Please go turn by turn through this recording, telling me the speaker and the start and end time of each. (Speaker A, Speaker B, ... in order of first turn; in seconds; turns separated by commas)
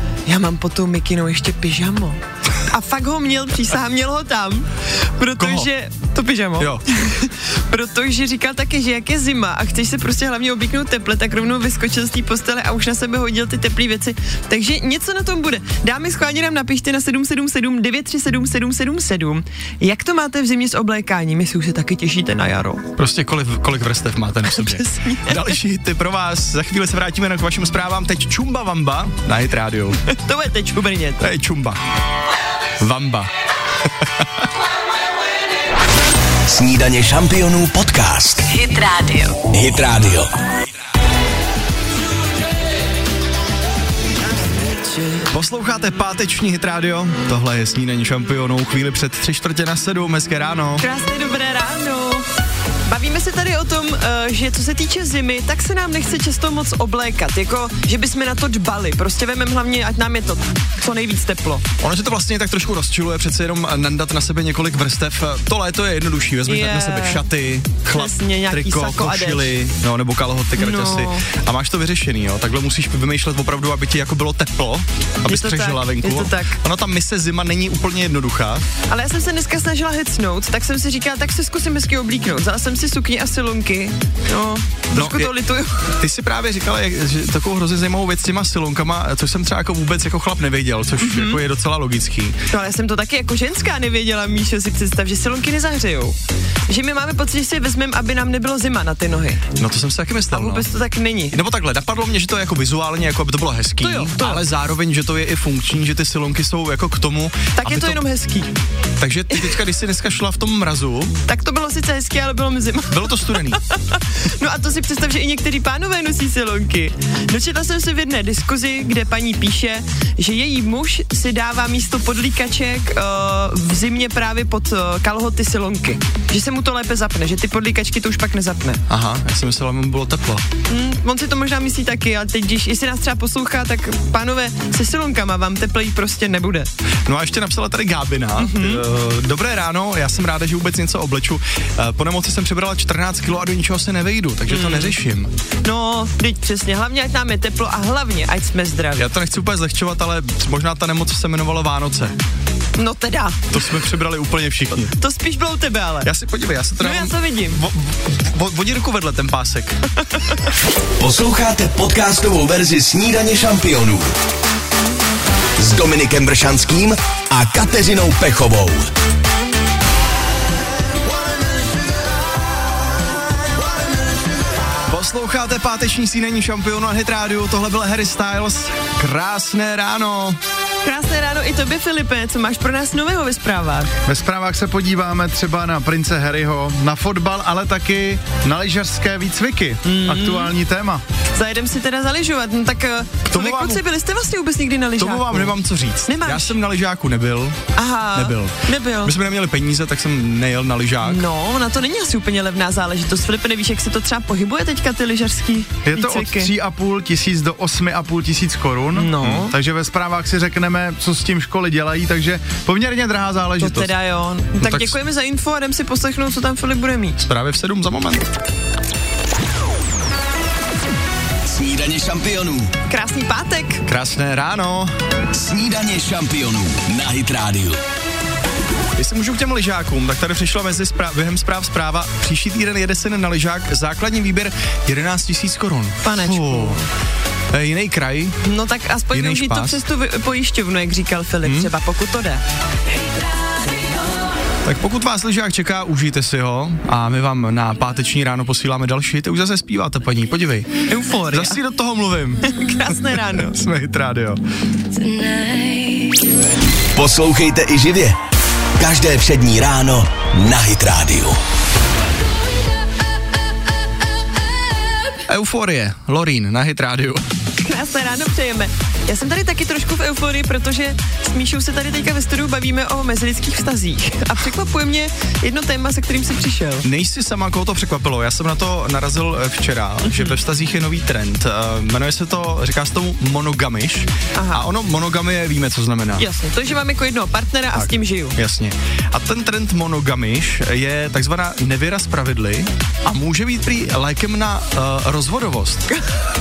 Speaker A: 0.2-22.9, Speaker B: 5.4-5.7, Speaker B: 23.0-30.0, Speaker A: 24.5-25.6, Speaker A: 30.1-31.3, Speaker B: 31.2-31.8, Speaker B: 32.8-33.3, Speaker B: 34.0-34.5, Speaker C: 36.5-38.5, Speaker D: 38.5-39.4, Speaker C: 39.5-40.3, Speaker A: 44.6-45.2, Speaker B: 45.3-50.8, Speaker A: 50.8-52.2, Speaker A: 52.9-61.6, Speaker B: 61.8-78.6, Speaker A: 66.5-67.2, Speaker A: 67.9-69.5, Speaker A: 70.6-71.2, Speaker A: 75.2-76.6, Speaker A: 78.9-85.9, Speaker B: 84.9-85.3, Speaker B: 86.0-92.4, Speaker A: 91.0-91.4, Speaker A: 92.5-96.2, Speaker A: 96.7-99.5, Speaker B: 99.6-100.7, Speaker A: 100.3-101.4, Speaker B: 101.3-108.0, Speaker A: 103.8-104.4, Speaker A: 107.5-108.5, Speaker B: 109.0-111.1, Speaker A: 109.3-109.6, Speaker A: 111.2-128.8, Speaker B: 112.9-113.6, Speaker B: 128.9-130.5, Speaker A: 130.7-136.7, Speaker B: 137.1-145.3, Speaker A: 138.4-138.8, Speaker A: 144.5-145.0, Speaker A: 145.6-149.1, Speaker B: 149.0-152.2, Speaker A: 152.8-153.5, Speaker B: 153.5-154.9, Speaker A: 155.0-156.1, Speaker B: 156.0-159.8, Speaker A: 156.8-157.6, Speaker C: 161.0-164.1, Speaker C: 165.6-168.9, Speaker B: 174.9-180.4, Speaker A: 180.8-183.9, Speaker E: 184.1-191.0, Speaker A: 189.8-190.5, Speaker A: 191.3-196.5, Speaker B: 193.3-193.8, Speaker B: 195.0-197.6, Speaker A: 197.8-199.1, Speaker B: 198.1-201.2, Speaker A: 201.0-206.5, Speaker E: 205.9-213.9, Speaker A: 208.9-209.5, Speaker A: 213.6-217.2, Speaker B: 214.6-215.0, Speaker B: 217.2-218.3, Speaker C: 221.5-222.7, Speaker A: 222.9-223.8, Speaker B: 223.9-224.9, Speaker C: 225.3-227.8, Speaker B: 229.0-236.8, Speaker A: 236.0-236.8, Speaker B: 237.5-238.4, Speaker A: 238.4-242.4, Speaker B: 239.1-239.8, Speaker B: 241.4-241.7, Speaker B: 244.6-252.5, Speaker A: 250.9-251.6, Speaker A: 252.4-253.6, Speaker B: 253.4-254.4, Speaker D: 255.0-256.1, Speaker C: 256.9-258.2, Speaker C: 258.8-261.4, Speaker B: 265.3-267.2, Speaker A: 267.6-276.9, Speaker B: 276.8-286.2, Speaker A: 280.0-280.4, Speaker A: 284.4-284.6, Speaker A: 286.2-288.4, Speaker B: 287.7-295.9